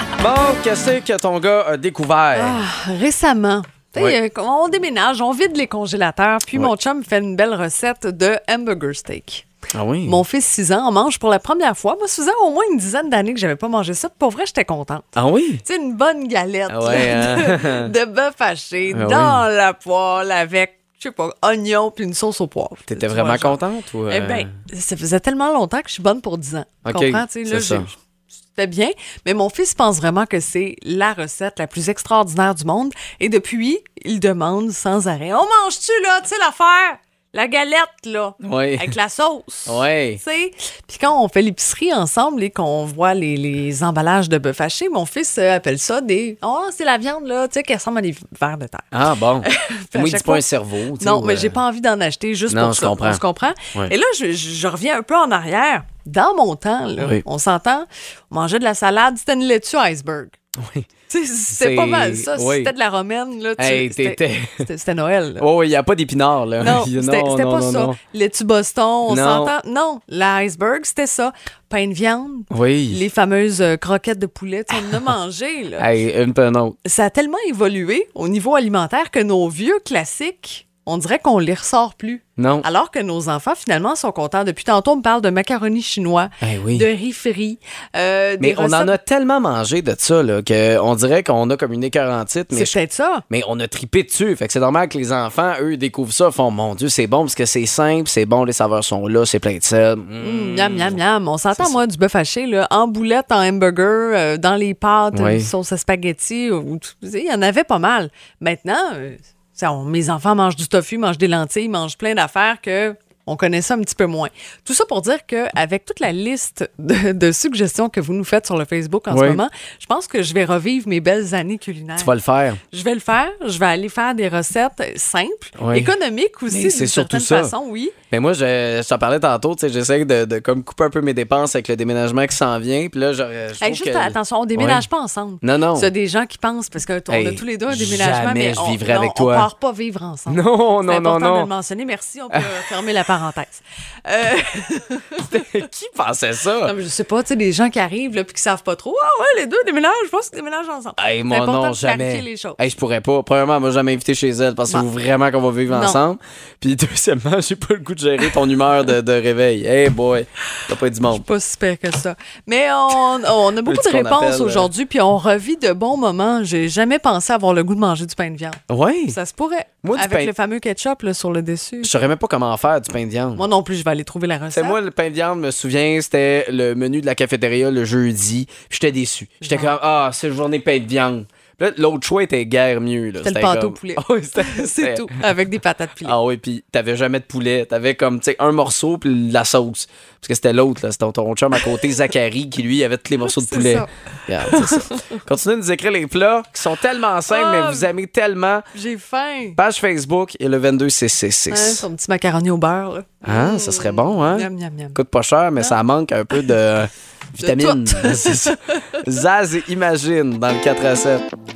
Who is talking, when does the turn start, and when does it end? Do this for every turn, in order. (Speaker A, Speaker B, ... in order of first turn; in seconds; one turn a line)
Speaker A: 0.2-2.6
Speaker B: 2.4-9.4
Speaker A: 9.7-10.2
Speaker B: 10.1-28.0
Speaker A: 15.2-15.6
Speaker A: 16.7-17.9
Speaker A: 18.9-19.4
Speaker A: 22.9-24.5
Speaker A: 26.9-27.9
Speaker B: 28.5-48.9
Speaker A: 38.4-39.0
Speaker A: 39.7-40.2
Speaker A: 48.9-51.6
Speaker B: 49.4-50.5
Speaker B: 51.0-60.4
Speaker A: 52.5-53.2
Speaker A: 57.0-57.2
Speaker A: 60.6-60.9
Speaker B: 61.1-65.5
Speaker A: 61.5-62.7
Speaker A: 63.6-64.7
Speaker A: 65.4-68.0
Speaker B: 66.6-75.9
Speaker A: 69.1-69.5
Speaker A: 72.5-73.0
Speaker A: 75.8-76.8
Speaker B: 76.8-89.0
Speaker A: 82.4-82.7
Speaker A: 86.4-86.9
Speaker A: 88.4-92.8
Speaker B: 92.5-93.2
Speaker A: 93.3-101.0
Speaker B: 100.2-122.1
Speaker A: 105.1-105.5
Speaker A: 119.1-119.4
Speaker A: 122.0-122.6
Speaker B: 122.7-128.0
Speaker A: 125.6-126.0
Speaker A: 126.5-127.5
Speaker A: 128.1-134.9
Speaker B: 133.6-145.4
Speaker A: 135.4-135.9
Speaker A: 137.1-139.5
Speaker A: 140.3-141.5
Speaker A: 142.3-142.6
Speaker A: 145.2-146.7
Speaker B: 146.6-152.6
Speaker A: 151.0-161.2
Speaker B: 155.7-156.0
Speaker B: 161.1-172.1
Speaker A: 163.6-164.7
Speaker A: 168.7-169.2
Speaker A: 169.8-170.3
Speaker A: 171.8-173.4
Speaker B: 173.4-174.8
Speaker A: 174.5-185.2
Speaker B: 179.4-179.7
Speaker B: 183.2-186.2
Speaker A: 186.0-198.7
Speaker B: 193.2-195.2
Speaker B: 197.3-197.9
Speaker B: 198.7-199.6
Speaker A: 199.6-201.8
Speaker B: 201.5-205.0
Speaker A: 203.2-211.2
Speaker B: 207.4-209.0